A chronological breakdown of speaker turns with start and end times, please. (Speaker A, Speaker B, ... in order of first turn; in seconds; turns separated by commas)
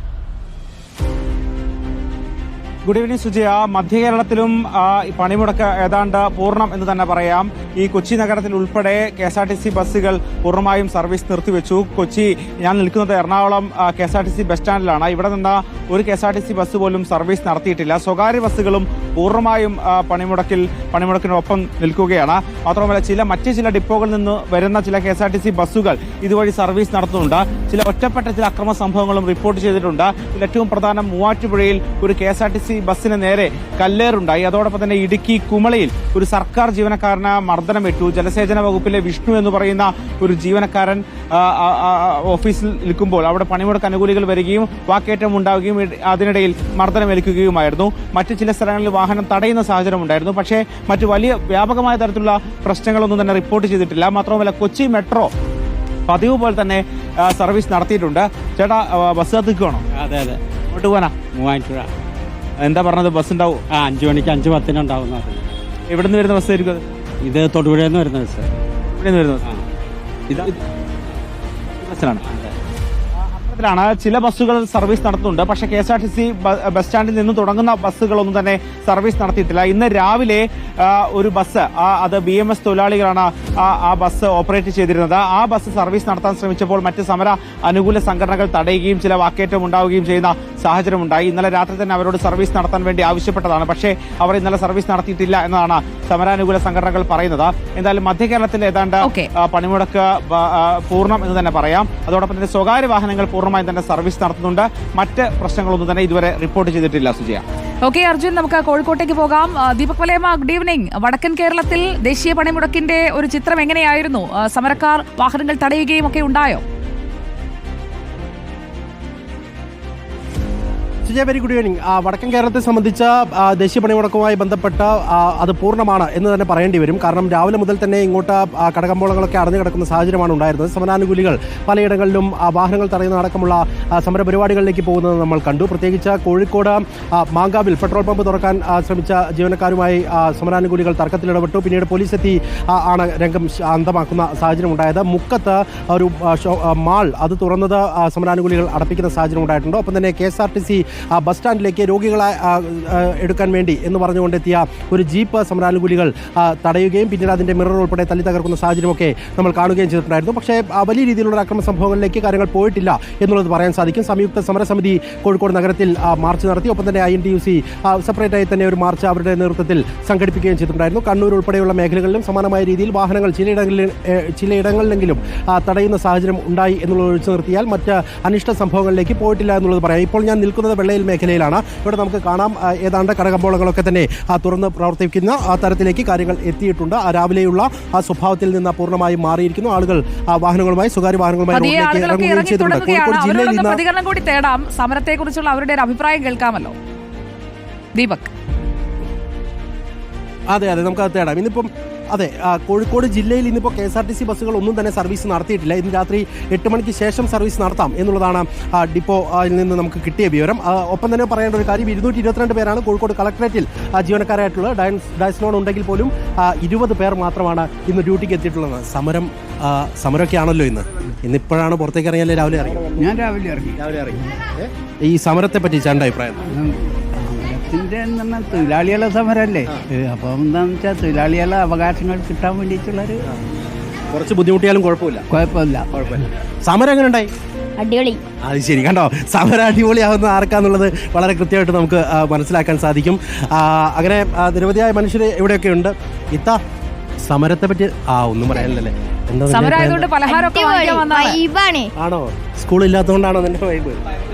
Speaker A: 2.9-55.3, Speaker A: 56.1-59.8, Speaker B: 59.9-60.4, Speaker A: 60.7-61.2, Speaker B: 61.3-61.9, Speaker A: 62.6-63.6, Speaker B: 63.7-65.4, Speaker A: 65.9-66.8, Speaker B: 67.2-68.5, Speaker A: 68.9-69.4, Speaker A: 71.8-72.2, Speaker B: 72.2-72.5, Speaker A: 73.3-107.4, Speaker C: 99.0-99.3, Speaker C: 107.8-116.6, Speaker D: 121.0-193.8, Speaker C: 191.5-196.8, Speaker C: 197.9-198.3, Speaker D: 200.5-223.1, Speaker E: 222.9-223.8, Speaker D: 223.8-226.4, Speaker E: 226.5-233.2, Speaker D: 234.1-235.2, Speaker E: 235.3-236.3, Speaker D: 236.6-237.3, Speaker F: 237.8-238.2, Speaker D: 238.4-246.6, Speaker D: 247.2-250.1, Speaker C: 249.5-251.4, Speaker F: 250.2-251.9, Speaker D: 252.0-254.0